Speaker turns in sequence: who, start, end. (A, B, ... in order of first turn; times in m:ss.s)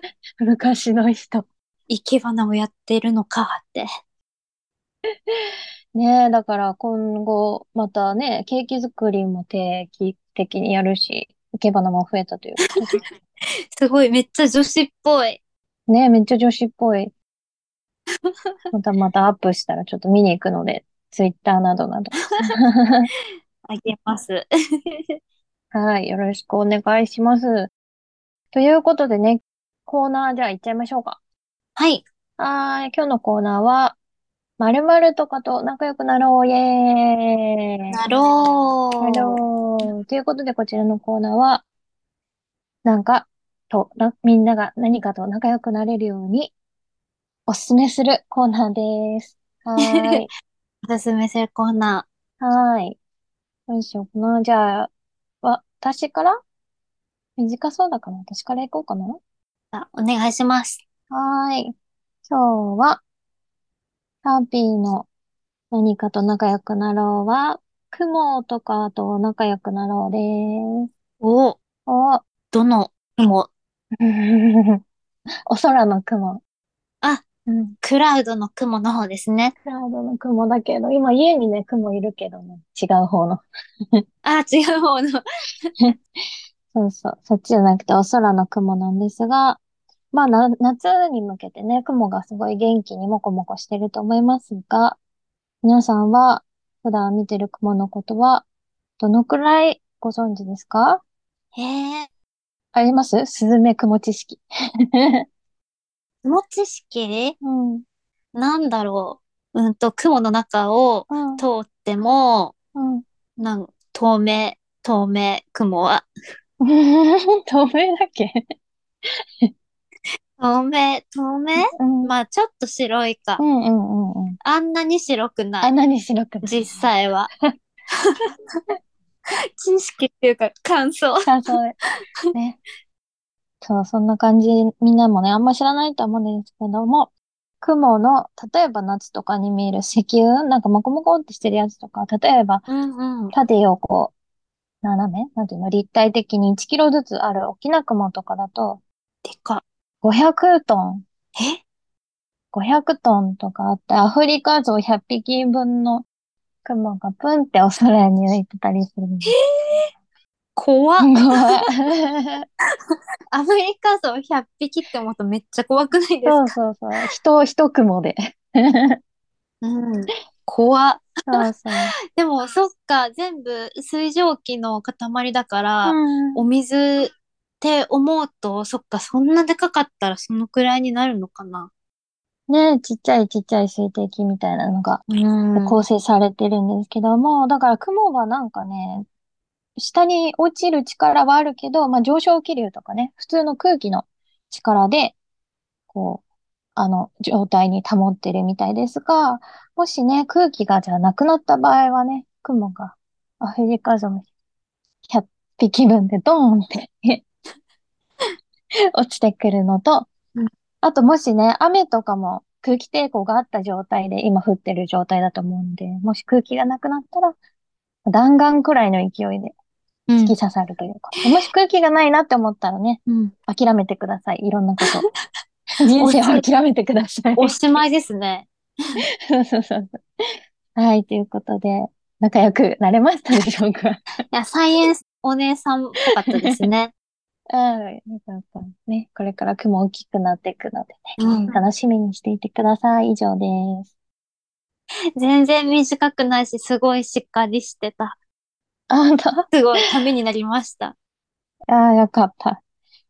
0:00.4-0:01.4 A
0:01.9-0:03.9 B
0:05.3-0:13.0 A
0:12.7-0:13.0 B
0:13.7-0:15.4 B
0:15.9-0:17.1 A
0:18.7-0:23.1 A
0:23.7-0:24.4 B
0:25.7-0:27.7 A
0:28.5-0:31.2 A
0:31.8-0:32.0 B
0:32.4-0:34.0 A
0:34.6-0:38.0 A
0:37.9-0:39.4 B
0:39.0-0:41.6 A
0:42.8-0:46.5 A
0:47.5-0:50.3 A
0:49.8-0:50.2 B
0:50.8-0:52.0 B
0:52.4-0:53.0 A
0:53.7-0:54.9 A
0:55.4-0:56.4 A
0:57.4-0:59.2 A
0:59.7-1:00.8 B
1:01.1-1:01.7 A
1:02.2-1:03.0 A
1:04.2-1:05.1 A
1:05.7-1:10.9 A
1:11.2-1:11.6 B
1:11.9-1:12.2 A
1:12.5-1:13.5 B
1:14.0-1:14.8 A
1:15.5-1:16.4 A
1:17.4-1:17.8 A
1:17.8-1:19.5 B
1:19.6-1:23.4 A
1:24.2-1:25.2 B
1:26.7-1:29.6 A
1:30.1-1:35.0 A
1:35.6-1:38.4 A
1:39.0-1:41.0 A
1:41.5-1:42.1 B
1:42.7-1:44.4 A
1:45.0-1:45.2 A
1:46.2-1:47.4 B
1:47.4-1:47.8 A
1:48.3-1:52.5 B
1:51.1-1:51.4 A
1:52.7-1:53.0 A
1:53.4-1:56.1 B
1:56.6-1:58.4 A
2:00.4-2:03.4 B
2:01.8-2:02.1 A
2:03.4-2:04.4 A
2:04.4-2:05.7 B
2:05.6-2:06.7 A
2:06.4-2:07.3 B
2:08.0-2:08.6 B
2:09.6-2:11.3 B
2:11.2-2:11.7 A
2:12.3-2:12.6 A
2:13.6-2:22.6 A
2:22.7-2:23.3 B
2:23.3-2:24.1 A
2:24.8-2:28.8 A
2:29.2-2:29.6 B
2:30.0-2:31.0 A
2:32.5-2:36.0 A
2:36.6-2:39.3 A
2:39.3-2:39.9 B
2:40.6-2:41.6 B
2:41.0-2:42.4 A
2:43.3-2:46.6 B
2:46.2-2:49.0 A
2:49.6-2:51.4 B
2:51.3-2:51.9 A
2:52.1-3:01.7 B
2:55.8-2:56.4 A
3:02.5-3:05.0 A
3:05.1-3:05.8 B
3:05.6-3:09.0 A
3:09.8-3:15.2 A
3:15.9-3:16.2 A
3:16.7-3:24.2 A
3:25.1-3:27.2 A
3:29.0-3:30.1 A
3:30.8-3:37.4 A
3:38.0-3:39.5 A
3:40.1-3:40.3 B
3:40.2-3:45.0 A
3:43.1-3:43.3 B
3:45.8-3:47.8 A
3:46.0-3:46.4 B
3:47.4-3:48.5 B
3:49.3-3:50.0 A
3:50.8-3:54.0 A
3:54.3-3:56.9 B
3:57.5-4:03.9 A
4:01.2-4:01.6 B
4:05.2-4:08.2 B
4:08.9-4:09.5 A
4:09.5-4:10.9 B
4:11.7-4:12.6 A